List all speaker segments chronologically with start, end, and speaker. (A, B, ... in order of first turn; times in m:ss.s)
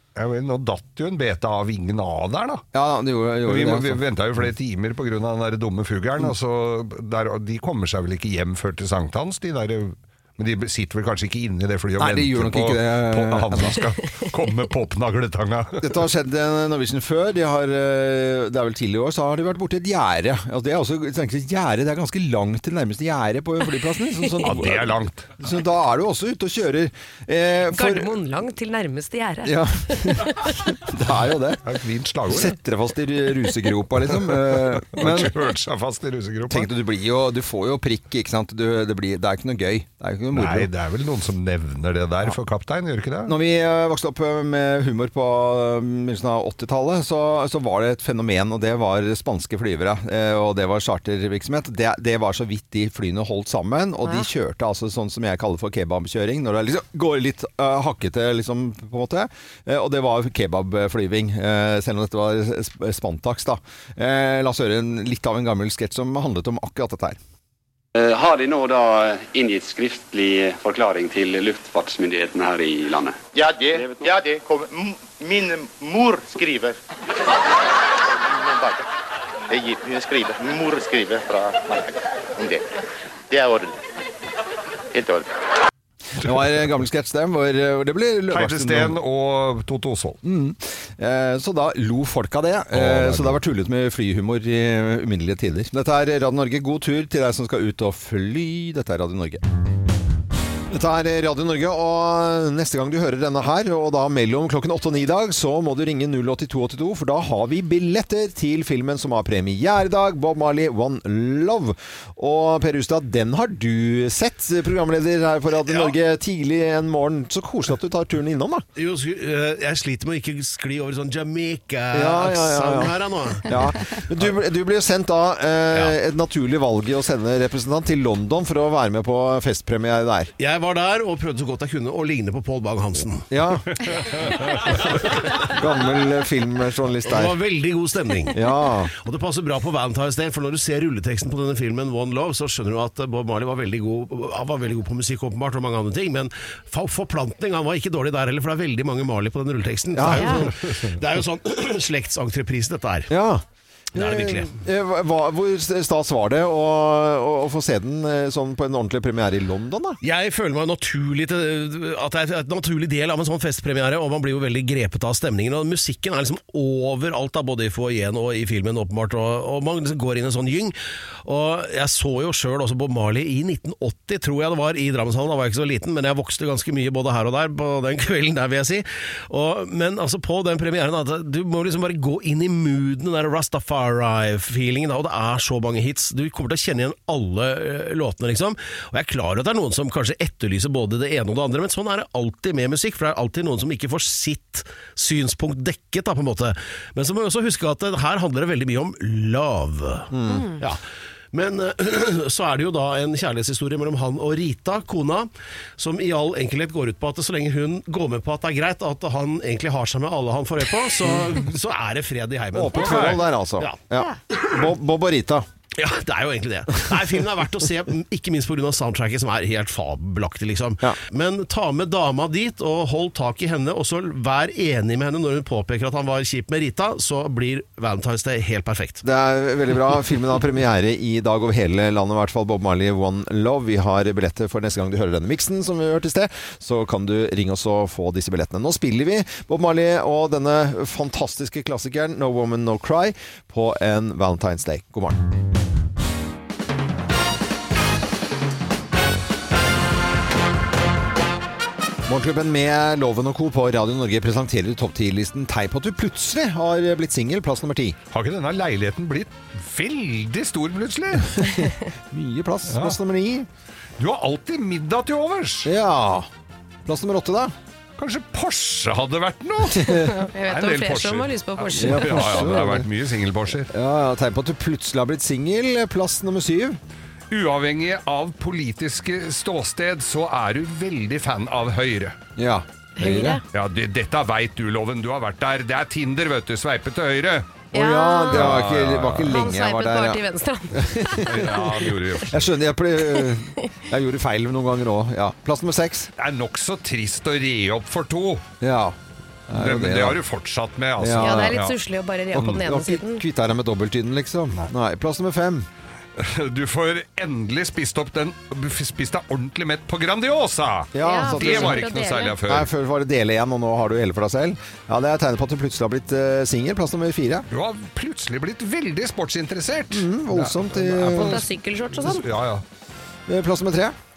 0:00.2-0:02.6 A
0:02.7-0:04.0 B
0:03.4-0:15.8 A
0:12.0-0:13.8 B
0:15.8-0:28.1 B
0:24.4-0:25.4 A
0:27.7-0:30.6 C
0:29.4-0:31.6 B
0:31.6-0:32.5 A
0:32.3-0:35.4 B
0:34.2-0:36.7 A
0:36.5-0:40.7 B
0:40.3-0:43.3 A
0:43.2-1:07.2 B
1:07.9-1:13.2 D
1:13.3-1:16.8 E
1:13.7-1:14.0 D
1:18.1-1:18.8 E
1:19.5-1:22.6 E
1:23.3-1:23.8 E
1:24.9-1:25.3 E
1:26.1-1:29.0 B
1:28.3-1:30.2 A
1:30.2-1:39.4 B
1:32.7-1:33.4 A
1:40.7-1:58.6 B
1:58.8-2:04.0 F
2:01.9-2:10.3 B
2:10.4-2:13.3 F
2:13.3-2:13.7 B
2:14.1-2:14.6 A
2:15.4-2:17.4 B
2:17.0-2:33.1 F
2:18.3-2:18.9 B
2:29.9-2:30.5 B
2:30.1-2:30.4 C
2:33.1-2:40.0 B
2:33.9-2:34.5 F
2:40.0-3:20.8 F
3:20.1-3:20.5 B
3:20.3-3:20.6 C
3:21.3-3:33.8 F
3:31.0-3:31.4 B
3:32.5-3:35.4 B
3:32.7-3:33.2 A
3:35.8-3:49.0 F
3:49.0-4:05.2 B
4:12.1-4:18.0 B
4:18.1-4:21.5 A
4:21.4-4:23.5 B
4:22.7-4:23.0 A
4:24.0-4:25.7 A
4:25.6-4:26.3 B
4:26.8-4:27.5 B
4:28.0-4:33.7 A
4:29.7-4:30.1 B
4:29.8-4:32.5 C
4:31.8-4:32.9 B
4:33.7-4:36.8 B
4:37.3-4:42.2 A
4:42.4-4:43.4 B
4:43.0-4:43.4 C
4:43.5-4:47.6 A
4:47.7-4:48.5 C
4:47.7-4:50.2 B
4:48.3-4:49.4 A
4:49.3-4:51.5 C
4:50.7-4:56.1 B
4:51.2-4:52.5 A
4:56.2-4:58.4 A
4:58.6-4:59.0 B
4:59.5-5:00.2 B
4:59.5-5:01.7 A
5:01.0-5:01.6 B
5:01.2-5:03.2 C
5:02.3-5:05.7 B
5:06.2-5:12.7 A
5:10.9-5:11.9 B
5:11.0-5:12.3 C
5:12.5-5:17.5 B
5:17.5-5:22.6 A
5:19.9-5:21.4 B
5:21.1-5:22.2 C
5:23.3-5:24.0 B